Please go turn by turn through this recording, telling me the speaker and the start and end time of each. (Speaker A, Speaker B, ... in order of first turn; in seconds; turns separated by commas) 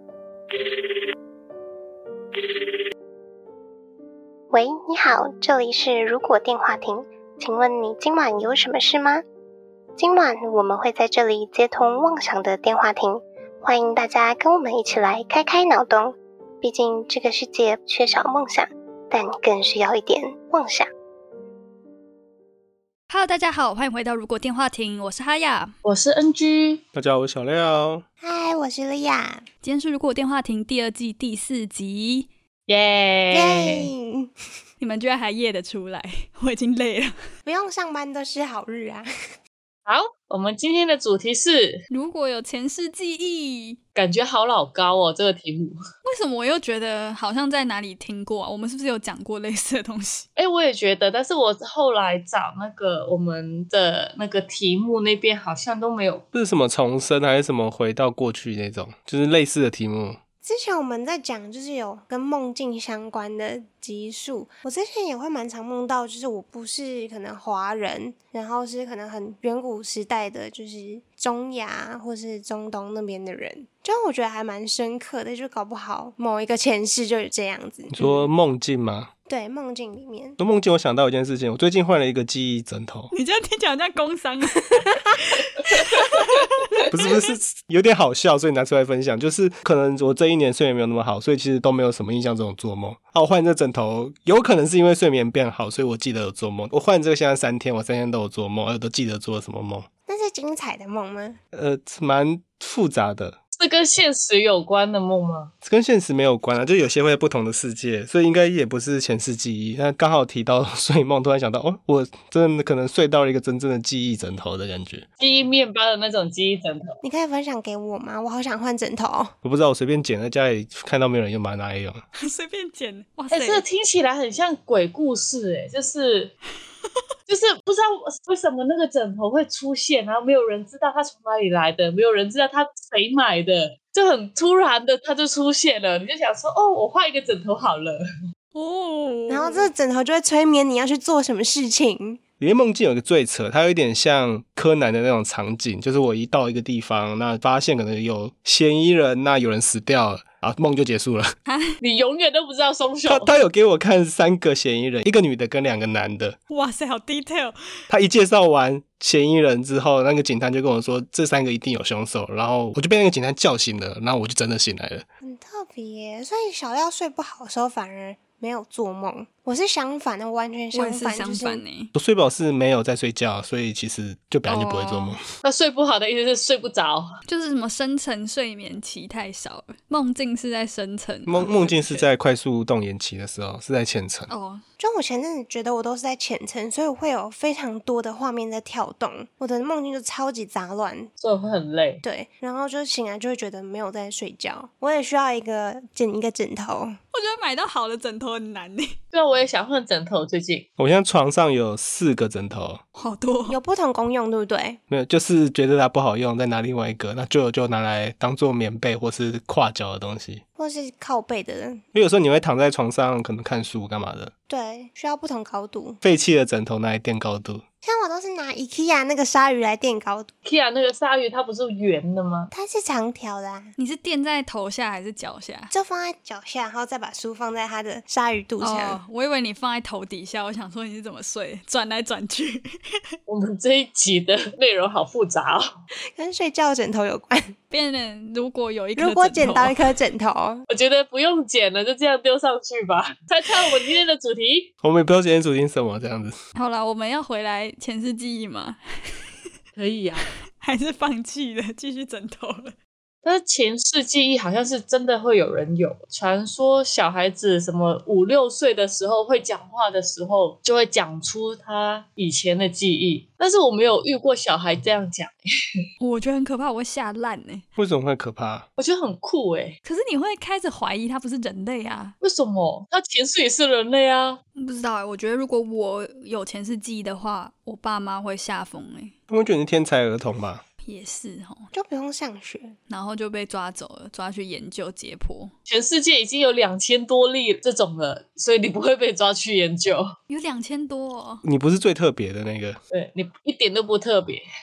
Speaker A: 4.5-9.2, Speaker A: 10.0-20.9, Speaker B: 23.1-25.7, Speaker C: 25.8-26.8, Speaker D: 26.9-28.0, Speaker E: 28.2-29.4, Speaker B: 29.6-32.3, Speaker C: 32.7-33.9, Speaker E: 33.3-34.3, Speaker B: 34.8-37.1, Speaker E: 37.5-39.1, Speaker C: 39.9-41.8, Speaker B: 41.9-43.8, Speaker C: 44.0-45.8, Speaker B: 46.0-50.2, Speaker C: 50.4-56.2, Speaker D: 56.3-60.2, Speaker E: 60.4-77.9, Speaker D: 77.9-79.1, Speaker E: 79.3-80.4, Speaker D: 80.4-83.1, Speaker B: 83.1-87.2, Speaker D: 86.9-99.9, Speaker E: 100.1-101.4, Speaker D: 101.5-103.4, Speaker C: 103.5-105.5, Speaker D: 105.6-115.0, Speaker C: 115.2-116.9, Speaker E: 117.0-119.3, Speaker D: 119.4-122.0, Speaker B: 122.2-123.6, Speaker C: 123.3-126.3, Speaker C: 127.3-138.0, Speaker B: 138.5-139.7, Speaker E: 139.3-142.2, Speaker D: 142.4-151.3, Speaker B: 151.4-151.8, Speaker C: 151.8-153.3, Speaker D: 153.1-156.4, Speaker B: 156.5-157.6, Speaker D: 157.9-165.0, Speaker E: 165.2-171.6, Speaker B: 170.7-171.9, Speaker D: 171.9-175.2, Speaker B: 174.4-175.2, Speaker C: 175.4-177.1, Speaker B: 177.3-181.8, Speaker D: 181.2-184.3, Speaker C: 181.5-182.1, Speaker B: 184.3-184.6, Speaker E: 184.8-191.1, Speaker C: 191.2-192.0, Speaker E: 192.0-197.0, Speaker B: 197.1-198.9, Speaker C: 199.1-200.7, Speaker D: 200.8-202.8, Speaker B: 202.9-203.6, Speaker E: 203.5-204.8, Speaker D: 204.9-210.4, Speaker E: 210.6-211.8, Speaker D: 211.9-214.3, Speaker E: 214.5-216.0, Speaker D: 216.0-217.6, Speaker E: 217.8-220.3, Speaker C: 220.4-222.5, Speaker E: 222.5-223.7, Speaker B: 223.8-225.7, Speaker E: 225.7-229.0, Speaker B: 228.6-233.0, Speaker C: 233.3-235.7, Speaker E: 236.1-237.5, Speaker B: 237.7-239.8, Speaker E: 239.0-240.6, Speaker C: 240.7-244.7, Speaker D: 244.8-246.4, Speaker B: 246.5-249.5, Speaker C: 249.8-250.3, Speaker B: 250.6-252.7, Speaker C: 253.2-265.4, Speaker B: 266.0-267.6, Speaker D: 267.8-268.6, Speaker C: 268.8-269.8, Speaker B: 269.9-272.1, Speaker C: 272.2-274.4, Speaker B: 274.6-279.1, Speaker D: 279.3-280.6, Speaker B: 280.8-281.7, Speaker E: 281.7-282.8, Speaker B: 282.9-285.5, Speaker C: 285.7-290.1, Speaker B: 290.3-291.4, Speaker D: 291.4-292.8, Speaker C: 292.9-294.4